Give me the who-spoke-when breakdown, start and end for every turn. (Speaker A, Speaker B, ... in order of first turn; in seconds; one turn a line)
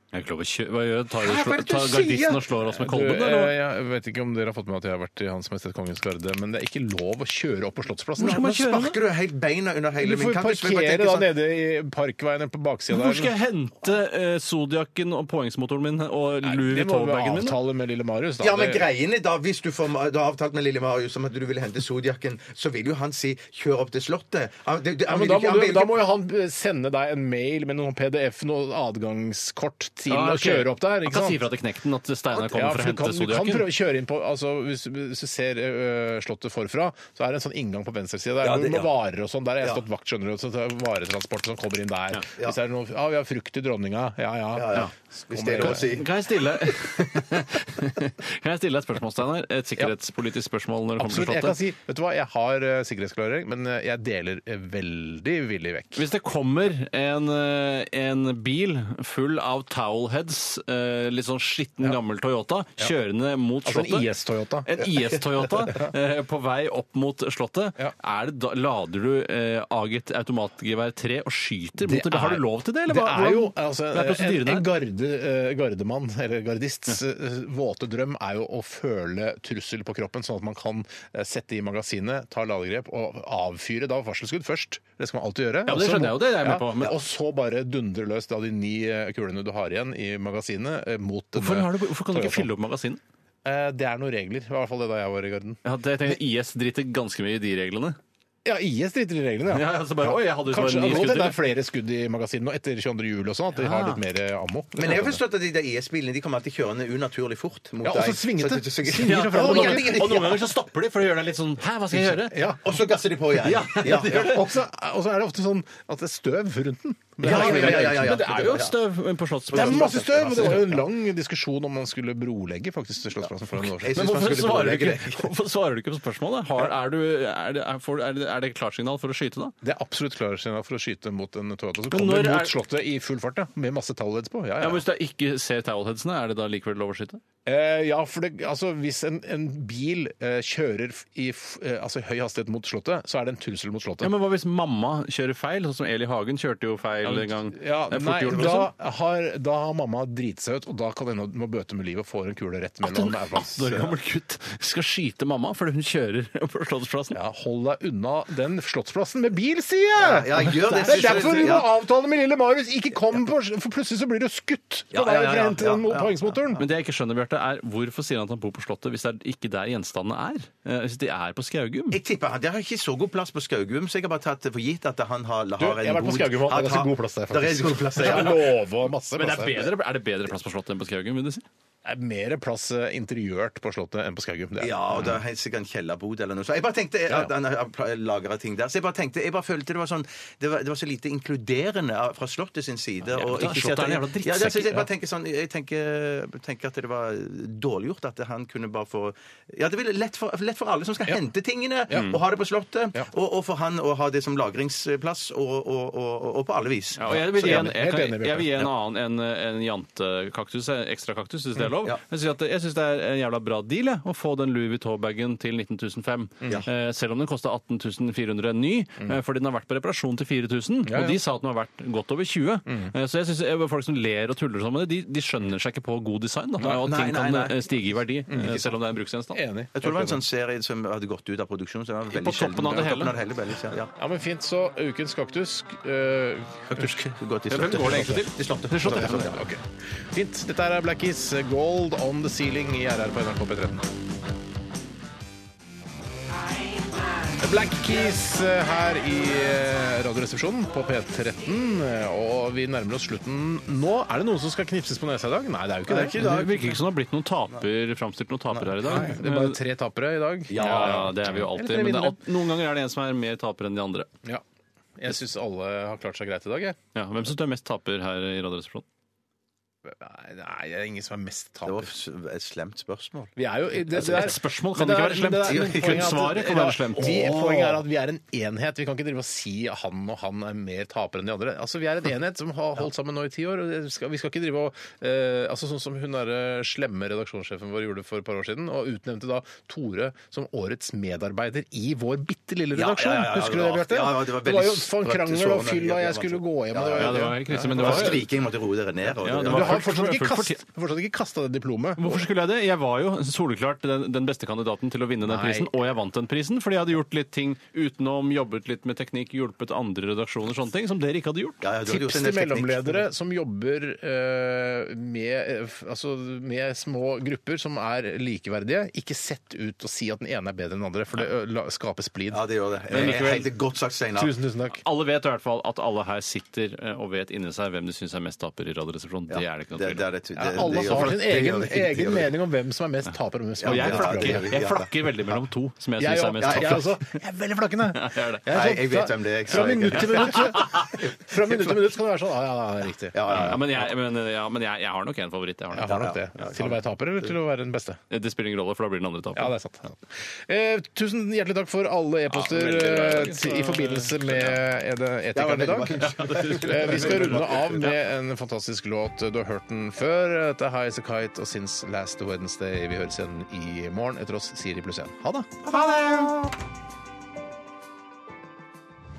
Speaker A: 0.1-3.6
Speaker B: 1.2-2.4
Speaker C: 2.7-8.8
Speaker A: 8.2-9.0
Speaker B: 8.2-11.3
Speaker C: 10.0-13.3
Speaker A: 12.9-17.6
Speaker C: 16.4-18.9
Speaker B: 18.4-26.1
Speaker C: 25.1-31.4
Speaker A: 30.1-33.7
Speaker C: 32.5-45.9
Speaker B: 38.4-39.0
Speaker B: 44.5-46.8
Speaker A: 45.6-51.6
Speaker C: 51.0-56.0
Speaker A: 56.0-74.7
Speaker C: 63.6-64.7
Speaker C: 71.8-92.5
Speaker A: 85.7-87.0
Speaker A: 91.4-93.0
Speaker C: 93.5-95.6
Speaker A: 95.7-98.0
Speaker C: 98.5-105.2
Speaker A: 99.5-101.5
Speaker A: 103.5-104.0
Speaker B: 104.8-110.5
Speaker C: 107.8-110.4
Speaker A: 109.0-112.5
Speaker C: 111.9-112.6
Speaker B: 112.6-114.4
Speaker A: 113.4-114.5
Speaker C: 113.8-118.2
Speaker B: 117.2-118.8
Speaker A: 117.2-120.8
Speaker B: 119.5-120.8
Speaker C: 119.5-124.0
Speaker B: 123.6-125.3
Speaker A: 123.9-129.6
Speaker C: 129.6-134.8
Speaker A: 131.9-132.6
Speaker A: 134.6-137.2
Speaker C: 137.5-144.1
Speaker A: 144.0-148.7
Speaker C: 147.1-153.9
Speaker A: 152.8-157.2
Speaker C: 157.1-166.6
Speaker B: 160.0-161.7
Speaker A: 160.8-161.6
Speaker B: 164.9-166.4
Speaker A: 166.6-172.0
Speaker B: 171.9-178.4
Speaker C: 175.6-179.7
Speaker A: 179.2-181.4
Speaker C: 181.8-184.8
Speaker B: 184.6-207.6
Speaker A: 193.2-194.9
Speaker A: 207.0-229.4
Speaker C: 207.1-208.7
Speaker C: 220.9-221.2
Speaker B: 226.6-227.7
Speaker C: 228.3-228.6
Speaker B: 228.4-228.7
Speaker C: 229.3-230.2
Speaker B: 229.8-233.9
Speaker A: 232.1-233.2
Speaker C: 234.0-236.9
Speaker A: 236.7-239.4
Speaker B: 236.8-239.4
Speaker C: 237.9-238.1
Speaker C: 238.8-243.9
Speaker C: 247.4-256.2
Speaker B: 255.9-256.8
Speaker A: 256.1-259.6
Speaker B: 258.5-259.1
Speaker C: 258.8-262.2
Speaker B: 260.5-261.4
Speaker A: 260.5-264.1
Speaker C: 265.0-266.8
Speaker A: 266.9-268.9
Speaker C: 269.9-271.9
Speaker B: 271.6-273.3
Speaker C: 273.4-298.2
Speaker A: 273.9-277.8
Speaker B: 273.9-274.3
Speaker B: 275.5-276.2
Speaker B: 277.0-277.7
Speaker B: 292.7-299.9
Speaker A: 297.0-298.3
Speaker A: 299.2-300.6
Speaker C: 299.4-302.3
Speaker A: 302.0-311.6
Speaker C: 305.2-305.7
Speaker B: 311.6-313.1
Speaker C: 311.9-323.2
Speaker B: 322.3-324.4
Speaker A: 322.9-323.5
Speaker C: 324.2-324.8
Speaker A: 324.8-331.1
Speaker B: 329.3-332.3
Speaker C: 330.4-334.8
Speaker B: 333.6-335.4
Speaker A: 333.6-337.0
Speaker C: 336.0-343.2
Speaker B: 336.4-336.9
Speaker A: 337.9-338.4
Speaker B: 338.5-341.8
Speaker A: 339.6-340.9
Speaker B: 343.1-343.9
Speaker A: 343.3-346.1
Speaker C: 345.7-348.0
Speaker B: 345.8-346.8
Speaker A: 348.1-349.6
Speaker C: 349.4-366.5
Speaker A: 352.3-354.6
Speaker B: 355.3-357.9
Speaker A: 355.9-357.9